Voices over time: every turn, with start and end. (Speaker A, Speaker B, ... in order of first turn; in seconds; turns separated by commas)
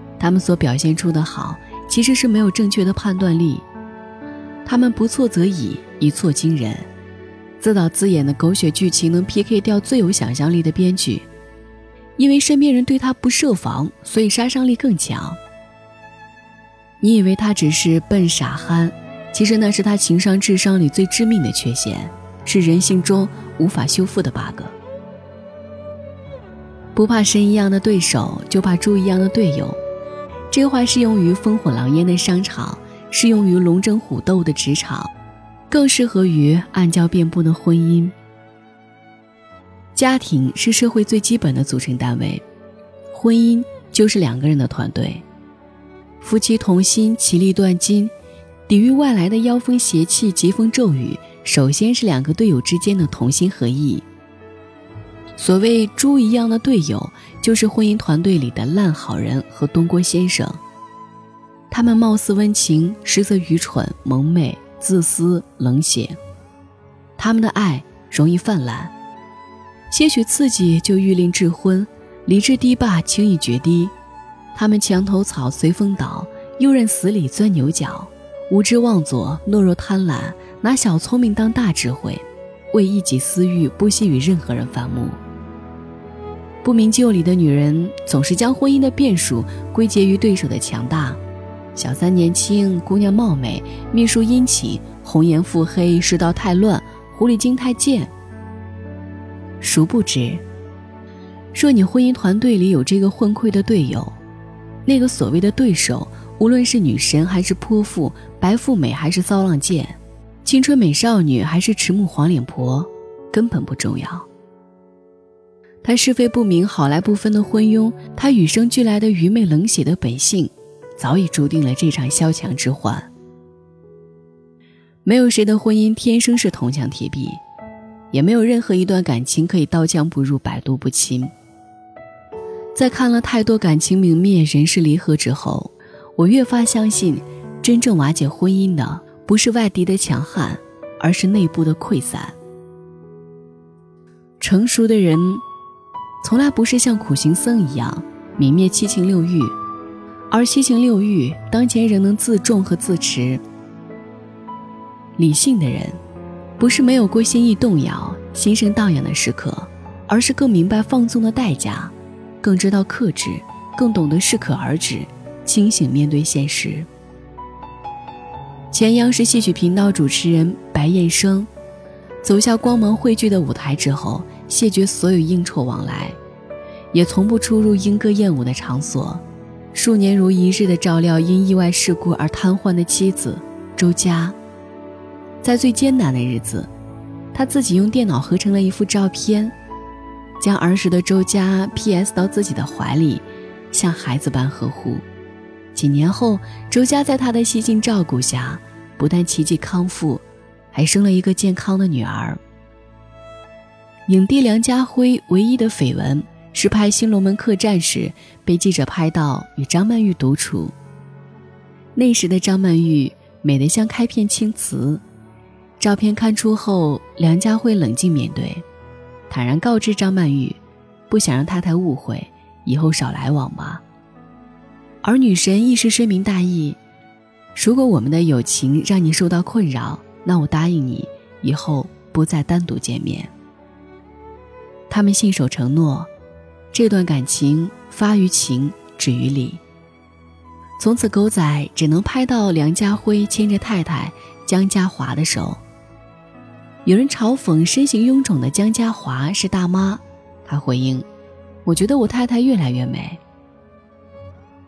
Speaker A: 0.2-3.7, Speaker A: 4.7-6.9, Speaker A: 7.6-11.3, Speaker A: 12.2-15.4, Speaker A: 17.0-24.8, Speaker A: 26.9-29.8, Speaker A: 30.5-35.1, Speaker A: 35.7-38.1, Speaker A: 39.9-42.4, Speaker A: 43.1-45.2, Speaker A: 46.2-48.1, Speaker A: 48.7-54.1, Speaker A: 55.4-60.6, Speaker A: 61.7-66.2, Speaker A: 67.2-68.9, Speaker A: 69.9-73.9, Speaker A: 74.5-85.2, Speaker A: 86.6-91.2, Speaker A: 91.8-98.1, Speaker A: 99.6-100.4, Speaker A: 101.5-104.2, Speaker A: 104.9-114.3, Speaker A: 115.8-123.1, Speaker A: 125.0-127.4, Speaker A: 128.1-131.3, Speaker A: 132.8-142.4, Speaker A: 144.4-145.4, Speaker A: 146.2-149.6, Speaker A: 150.3-153.4, Speaker A: 155.2-156.0, Speaker A: 156.6-166.9, Speaker A: 168.7-171.5, Speaker A: 172.2-176.2, Speaker A: 176.9-179.2, Speaker A: 179.7-184.4, Speaker A: 185.4-186.7, Speaker A: 187.3-189.6, Speaker A: 190.4-195.0, Speaker A: 195.8-202.4, Speaker A: 204.1-210.7, Speaker A: 211.9-215.0, Speaker A: 215.8-218.7, Speaker A: 219.3-220.6, Speaker A: 221.1-223.8, Speaker A: 225.0-226.8, Speaker A: 227.6-233.3, Speaker A: 234.9-236.1, Speaker A: 236.7-239.6, Speaker A: 240.8-245.6, Speaker A: 246.8-251.1, Speaker A: 251.7-253.2